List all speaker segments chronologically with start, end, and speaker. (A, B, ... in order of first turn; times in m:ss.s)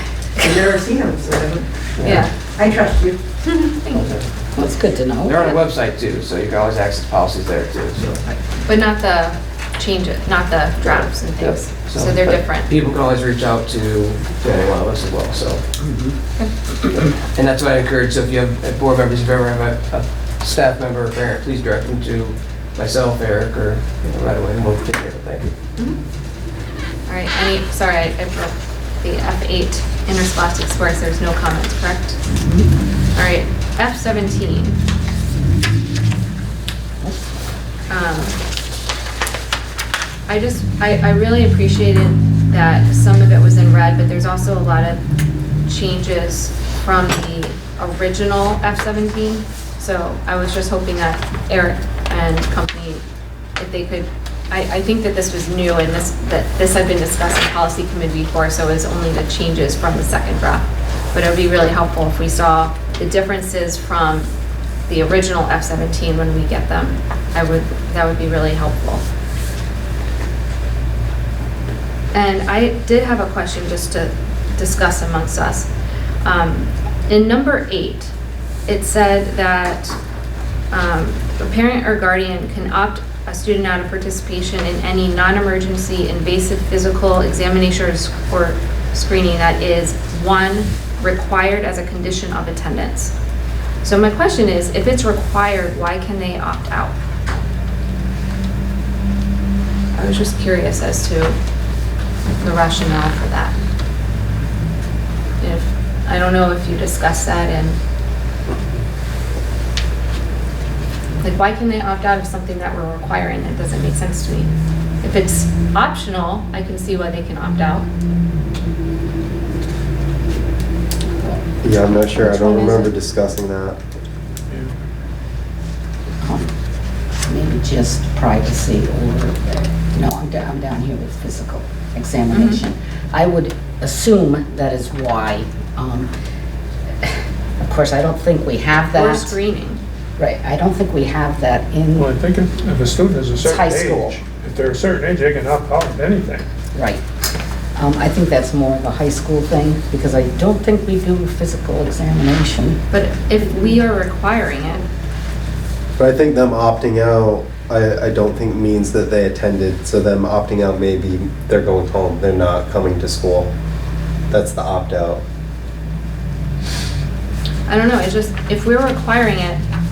0:00.4-0:01.6 A
0:02.0-0:02.2 B
0:02.0-0:02.3 C
0:02.4-0:03.2 A
0:03.4-0:04.0 C
0:03.9-0:04.2 B
0:04.6-0:05.5 D
0:05.2-0:08.3 B
0:08.6-0:12.7 C
0:10.8-0:15.6 B
0:15.8-0:16.1 D
0:16.9-0:25.5 B
0:27.1-0:32.2 C
0:32.4-0:32.7 D
0:33.1-0:34.8 C
0:37.9-0:38.4 C
0:40.3-0:45.0 C
0:45.6-0:53.0 C
0:53.6-1:04.3 C
1:04.9-1:09.0 C
1:12.1-1:15.7 C
1:16.2-1:18.1 C
1:18.7-1:20.0 C
1:20.7-1:33.1 C
1:33.8-1:37.0 C
1:39.9-1:41.4 C
1:42.4-1:43.5 C
1:45.4-1:47.8 C
1:51.2-1:54.5 C
1:55.0-1:57.9 C
2:01.2-2:02.9 D
2:01.6-2:03.8 E
2:06.2-2:06.5 D
2:07.2-2:16.1 D
2:12.3-2:12.6 C
2:17.0-2:19.4 D
2:18.8-2:19.8 C
2:20.2-2:22.1 D
2:21.9-2:26.4 F
2:23.4-2:24.2 D
2:26.7-2:27.0 D
2:27.8-2:32.8 D
2:32.9-2:34.9 C
2:36.0-2:43.5 E
2:44.3-2:45.2 E
2:47.7-2:49.6 C